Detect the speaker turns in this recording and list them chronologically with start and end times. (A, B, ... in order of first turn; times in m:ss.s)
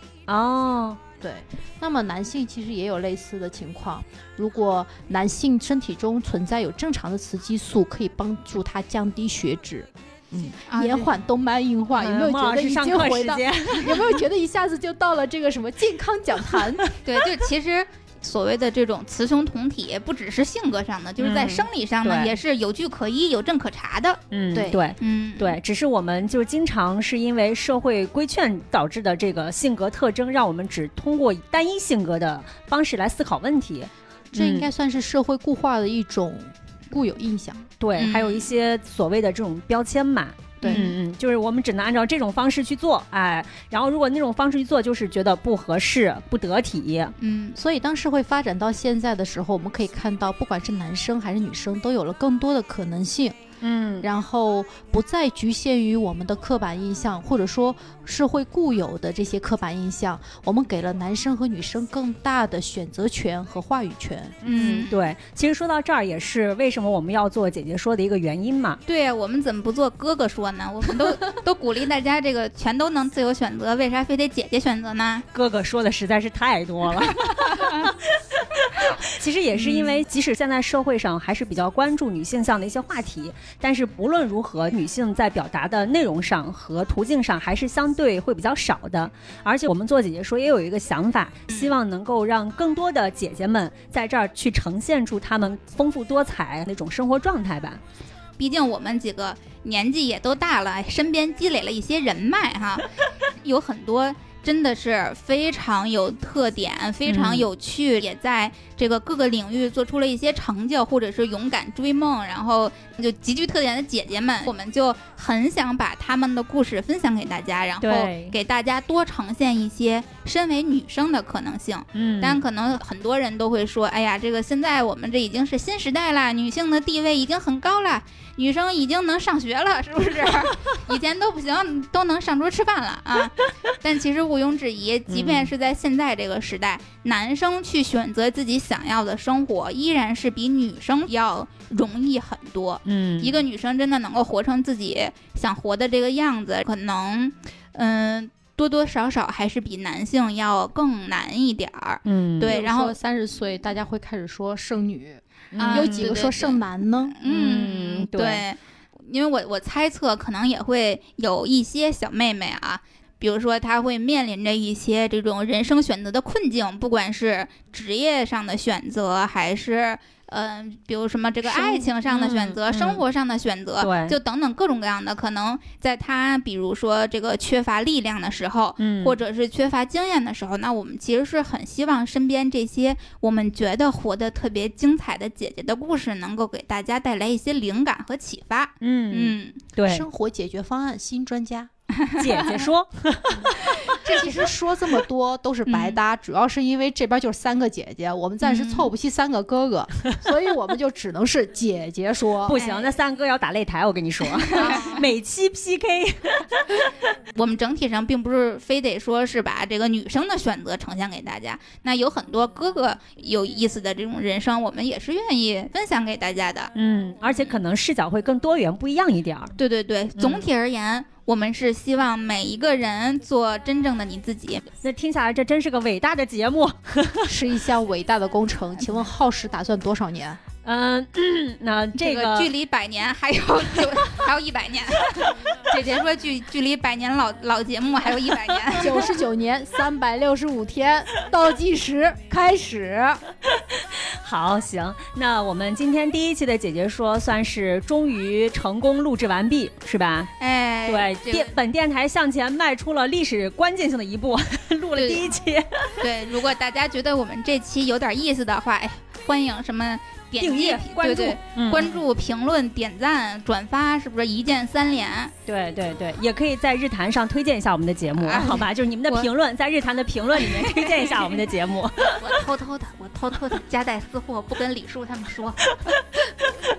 0:00.3-0:01.0 A
0:01.2-0:16.8 B
0:10.7-0:11.1 C
0:12.0-0:14.2 A
0:17.0-0:24.2 C
0:21.2-0:22.3 A
0:24.3-0:34.7 A
0:24.5-0:24.8 B
0:25.0-0:25.6 C
0:34.3-0:37.6 B
0:37.8-0:47.1 A
0:38.0-0:38.5 C
0:40.6-0:40.9 B
0:47.2-0:47.6 C
0:47.6-0:53.4 B
0:53.6-0:54.1 A
0:54.0-1:04.4 B
1:04.4-1:08.8 A
1:04.4-1:04.9 C
1:08.9-1:15.3 C
1:15.3-1:37.8 A
1:17.3-1:17.8 C
1:38.4-2:33.0 C
1:47.1-1:47.5 A
1:57.8-1:58.4 A
2:01.9-2:02.4 A
2:15.1-2:15.5 A
2:22.8-2:23.4 A
2:32.0-2:32.6 A
2:32.5-2:37.2 B
2:35.5-2:36.2 A
2:35.6-3:09.6 C
2:37.2-2:38.4 A
2:51.4-2:53.0 A
2:53.8-2:54.2 A
2:58.8-2:59.2 A
3:08.8-3:10.1 A
3:09.8-3:11.7 B
3:12.0-3:12.7 C
3:12.2-3:13.6 A
3:13.8-3:22.6 B
3:13.9-3:14.2 C
3:15.6-3:16.0 C
3:18.4-3:18.9 C
3:22.4-3:26.9 A
3:22.5-3:22.9 C
3:24.5-3:25.1 C
3:27.4-3:36.7 C
3:36.7-3:39.5 A
3:37.2-3:37.6 C
3:39.6-3:44.7 C
3:40.2-3:40.5 A
3:44.8-3:47.3 A
3:47.3-3:50.4 B
3:50.6-3:52.5 A
3:52.0-3:59.0 C
3:58.8-4:03.2 B
4:04.2-4:10.3 A
4:10.4-4:11.5 C
4:10.9-4:16.0 A
4:15.0-4:15.3 C
4:16.0-4:25.3 C
4:20.4-4:22.0 A
4:25.5-4:32.3 A
4:28.2-4:29.3 C
4:30.4-4:31.4 C
4:32.1-4:35.6 C